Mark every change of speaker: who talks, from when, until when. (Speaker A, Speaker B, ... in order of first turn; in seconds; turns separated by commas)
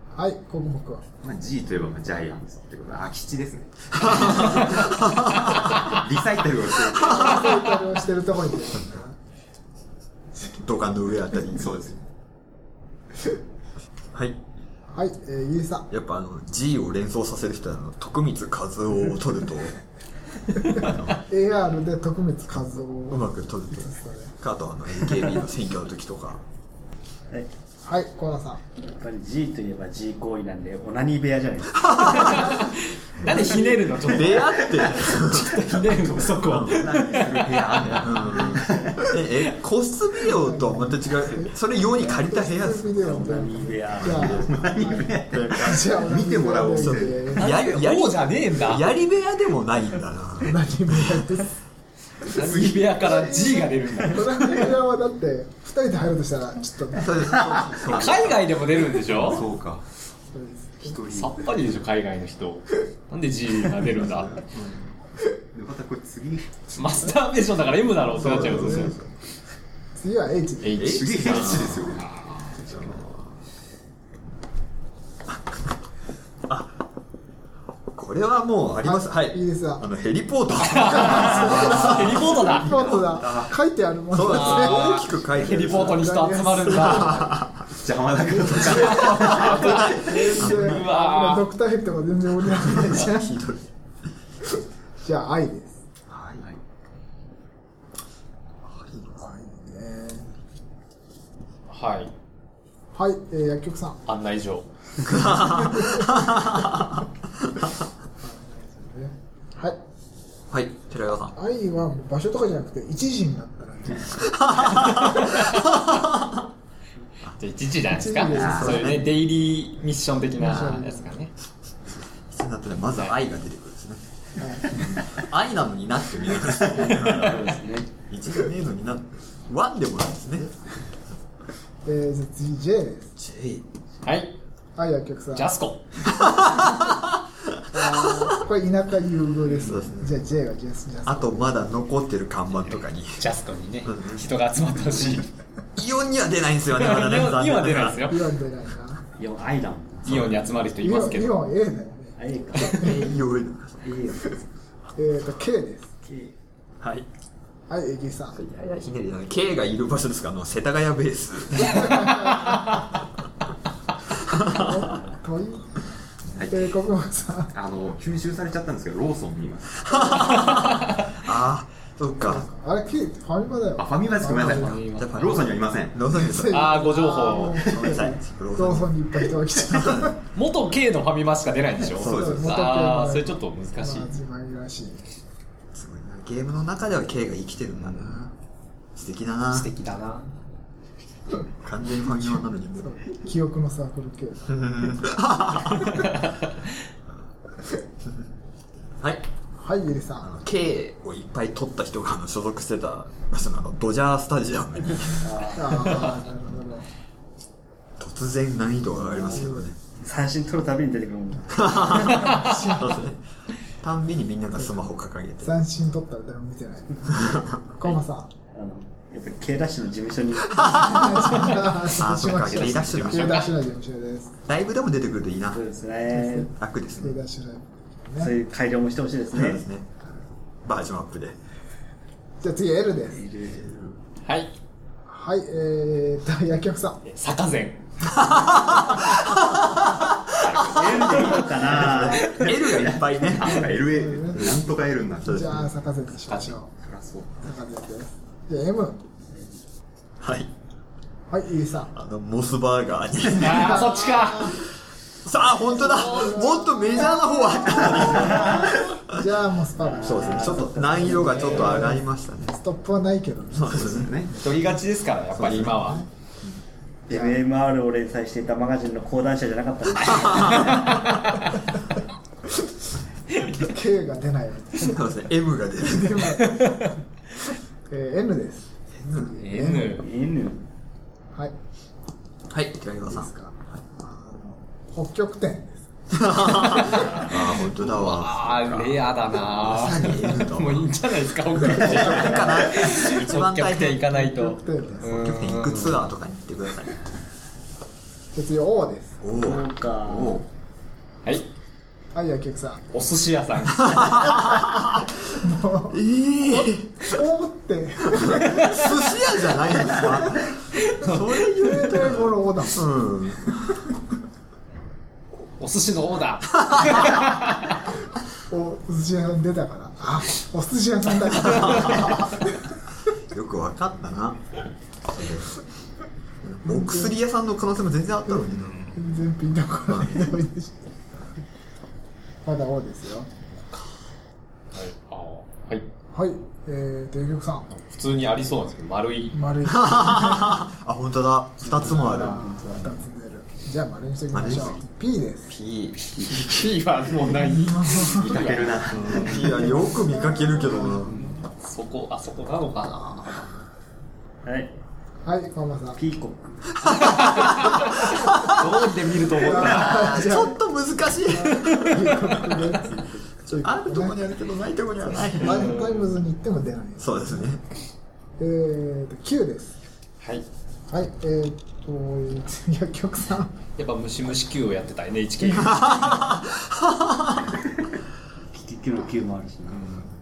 Speaker A: 0.2-1.0, Speaker B: 1.2-4.9, Speaker C: 4.0-5.9, Speaker B: 5.7-7.5, Speaker A: 7.0-9.1, Speaker C: 7.1-7.4, Speaker C: 10.6-11.8, Speaker B: 11.5-12.0, Speaker C: 14.1-14.4, Speaker A: 14.9-15.9, Speaker C: 15.9-19.8, Speaker C: 20.7-21.2, Speaker A: 21.1-24.3, Speaker C: 23.1-26.4, Speaker A: 27.9-28.6, Speaker D: 28.8-32.7, Speaker C: 31.8-32.6, Speaker E: 32.0-38.0, Speaker C: 33.2-35.7, Speaker A: 33.3-33.7, Speaker B: 36.3-38.9, Speaker C: 36.5-36.9, Speaker C: 37.9-42.9, Speaker D: 38.3-38.9, Speaker A: 40.2-47.5, Speaker D: 42.9-44.6, Speaker C: 44.0-46.0, Speaker B: 44.4-47.5, Speaker C: 46.8-51.4, Speaker E: 47.4-48.9, Speaker A: 50.4-51.5, Speaker E: 52.2-54.7, Speaker B: 52.3-53.5, Speaker A: 54.1-57.8, Speaker C: 57.0-58.6, Speaker E: 57.8-59.4, Speaker B: 59.1-59.8, Speaker A: 60.3-61.0, Speaker C: 61.0-61.3, Speaker B: 61.0-61.3, Speaker E: 61.0-64.4, Speaker C: 63.8-64.8, Speaker B: 65.5-66.7, Speaker E: 66.8-69.0, Speaker C: 68.1-69.1, Speaker A: 68.3-69.0, Speaker A: 70.0-71.0, Speaker E: 70.6-72.5, Speaker C: 70.8-73.4, Speaker B: 70.8-72.1, Speaker C: 75.3-75.7, Speaker C: 76.5-76.7, Speaker C: 77.9-82.3, Speaker A: 78.8-79.8, Speaker E: 80.6-83.1, Speaker A: 80.8-87.4, Speaker B: 82.5-83.5, Speaker C: 84.1-86.2, Speaker E: 84.2-87.3, Speaker C: 86.8-87.6, Speaker B: 87.7-89.9, Speaker C: 88.3-90.9, Speaker E: 88.5-91.5, Speaker A: 89.3-93.3, Speaker C: 92.4-93.7, Speaker A: 94.5-95.8, Speaker B: 96.1-96.6, Speaker C: 98.7-99.1, Speaker A: 99.2-100.3, Speaker E: 101.7-102.1, Speaker A: 102.9-104.0, Speaker E: 104.1-104.7, Speaker C: 105.0-107.7, Speaker A: 105.1-106.2, Speaker A: 108.2-109.8, Speaker C: 110.5-111.3, Speaker A: 111.4-114.3, Speaker C: 114.1-116.5, Speaker E: 117.4-121.3, Speaker A: 117.9-119.0, Speaker B: 118.4-118.7, Speaker C: 118.5-119.1, Speaker A: 120.4-121.1, Speaker C: 122.3-124.0, Speaker A: 124.4-124.8, Speaker C: 125.1-127.6, Speaker D: 126.7-127.9, Speaker C: 128.1-130.5, Speaker A: 131.8-133.1, Speaker C: 133.2-133.6, Speaker E: 134.0-134.3, Speaker A: 134.8-135.5, Speaker E: 135.4-136.2, Speaker C: 136.2-136.8, Speaker A: 137.7-141.7, Speaker C: 137.8-138.3, Speaker C: 139.5-140.2, Speaker C: 141.1-143.2, Speaker E: 142.7-145.3, Speaker C: 143.8-144.2, Speaker C: 145.8-148.1, Speaker E: 146.7-148.3, Speaker A: 148.1-149.0, Speaker D: 149.2-150.4, Speaker E: 150.1-151.5, Speaker A: 150.8-153.0, Speaker D: 152.2-153.1, Speaker C: 152.6-154.0, Speaker D: 153.8-154.4, Speaker A: 155.0-155.9, Speaker D: 156.1-156.3, Speaker C: 156.8-157.1, Speaker A: 157.7-158.4, Speaker C: 158.3-162.8, Speaker A: 161.7-162.6, Speaker C: 164.2-164.9, Speaker A: 164.4-165.9, Speaker B: 166.4-166.7, Speaker A: 166.5-167.5, Speaker B: 167.5-170.5, Speaker C: 169.9-172.5, Speaker A: 172.2-174.8, Speaker B: 173.8-176.0, Speaker E: 174.5-175.4, Speaker C: 175.0-176.7, Speaker A: 176.1-180.2, Speaker E: 176.3-177.7, Speaker C: 177.6-178.9, Speaker C: 179.7-180.1, Speaker E: 180.3-184.1, Speaker C: 182.0-182.6, Speaker B: 182.0-182.4, Speaker A: 182.1-185.1, Speaker C: 185.7-188.3, Speaker C: 188.9-189.7, Speaker E: 189.5-190.3, Speaker C: 191.6-192.9, Speaker A: 192.8-195.0, Speaker C: 194.5-196.1, Speaker E: 196.0-196.3, Speaker C: 199.0-199.3, Speaker A: 199.6-200.3, Speaker C: 200.2-205.5, Speaker D: 205.2-206.1, Speaker A: 205.5-206.9, Speaker C: 208.0-209.8, Speaker D: 209.0-209.5, Speaker A: 209.3-209.7, Speaker D: 210.0-212.4, Speaker C: 211.5-213.2, Speaker A: 211.8-213.0, Speaker C: 213.8-215.6, Speaker A: 215.4-218.3, Speaker C: 217.1-217.6, Speaker D: 218.5-221.5, Speaker C: 220.6-223.5, Speaker A: 220.7-224.3, Speaker E: 222.5-223.5, Speaker C: 224.5-225.6, Speaker D: 225.5-226.5, Speaker A: 226.1-228.3, Speaker C: 226.6-227.2, Speaker D: 228.2-229.6, Speaker C: 229.3-229.9, Speaker C: 230.7-231.4, Speaker A: 232.4-233.2, Speaker D: 233.1-233.9, Speaker C: 233.6-233.9, Speaker E: 234.2-234.5, Speaker A: 235.1-237.0, Speaker E: 237.1-239.0, Speaker C: 238.2-243.7, Speaker E: 240.4-242.6, Speaker D: 240.5-242.5, Speaker B: 242.6-245.7, Speaker A: 243.6-244.7, Speaker A: 245.2-246.7, Speaker C: 245.3-245.6, Speaker B: 246.8-247.4, Speaker A: 247.4-249.0, Speaker C: 250.2-250.5, Speaker A: 251.3-251.9, Speaker C: 251.9-254.0, Speaker E: 253.4-254.6, Speaker A: 253.4-254.6, Speaker C: 255.2-259.2, Speaker A: 255.8-260.7, Speaker D: 258.2-258.6, Speaker D: 259.8-261.9, Speaker C: 260.0-262.6, Speaker E: 261.2-261.6, Speaker A: 261.5-262.0, Speaker A: 262.5-264.6, Speaker C: 263.5-264.1, Speaker B: 263.9-264.4, Speaker E: 264.4-266.0, Speaker C: 265.3-266.6, Speaker A: 265.8-266.1, Speaker D: 267.1-271.2, Speaker A: 267.1-267.4, Speaker C: 270.1-271.0, Speaker A: 273.4-275.2, Speaker C: 274.8-276.4, Speaker A: 275.8-276.9, Speaker A: 277.9-280.0, Speaker C: 279.0-279.4, Speaker E: 279.4-280.1, Speaker D: 279.9-280.6, Speaker C: 282.5-283.3, Speaker A: 283.1-286.7, Speaker C: 286.1-290.9, Speaker E: 286.8-296.0, Speaker C: 291.6-294.0, Speaker A: 291.9-292.5, Speaker A: 294.1-295.4, Speaker C: 295.0-296.9, Speaker A: 298.3-299.2, Speaker C: 299.2-300.4, Speaker D: 299.3-300.4, Speaker A: 302.1-302.8, Speaker E: 302.9-304.5, Speaker C: 303.8-305.1, Speaker A: 305.4-308.9, Speaker C: 305.9-307.1, Speaker C: 308.1-313.8, Speaker E: 310.9-311.3, Speaker A: 311.5-312.9, Speaker E: 315.6-317.8, Speaker A: 318.5-322.6, Speaker C: 321.4-322.3, Speaker C: 323.3-324.4, Speaker C: 325.1-325.6, Speaker C: 326.4-328.9, Speaker A: 326.6-327.1, Speaker A: 328.9-330.8, Speaker C: 329.9-330.2, Speaker A: 332.4-333.3, Speaker E: 334.7-335.8, Speaker A: 336.1-337.7, Speaker E: 337.7-339.4, Speaker A: 339.3-340.6, Speaker C: 339.6-342.5, Speaker D: 341.6-343.0, Speaker A: 341.9-345.5, Speaker C: 344.3-344.8, Speaker C: 345.5-346.4, Speaker E: 346.1-349.5, Speaker A: 347.3-348.3, Speaker B: 348.1-349.4, Speaker C: 349.0-351.2, Speaker A: 349.4-351.2, Speaker E: 351.0-353.5, Speaker D: 354.4-354.7, Speaker A: 355.2-356.0, Speaker D: 356.0-357.4, Speaker C: 356.8-358.7, Speaker E: 357.3-360.2, Speaker A: 359.4-360.6, Speaker C: 359.4-362.1, Speaker A: 361.2-364.2, Speaker E: 361.5-362.1, Speaker D: 362.8-363.2, Speaker C: 363.5-365.7, Speaker A: 365.1-367.5, Speaker E: 365.4-366.1, Speaker C: 367.0-367.6, Speaker A: 368.4-369.8, Speaker A: 370.9-373.5, Speaker E: 373.8-376.4, Speaker C: 375.5-377.6, Speaker D: 378.5-379.9, Speaker E: 379.7-380.1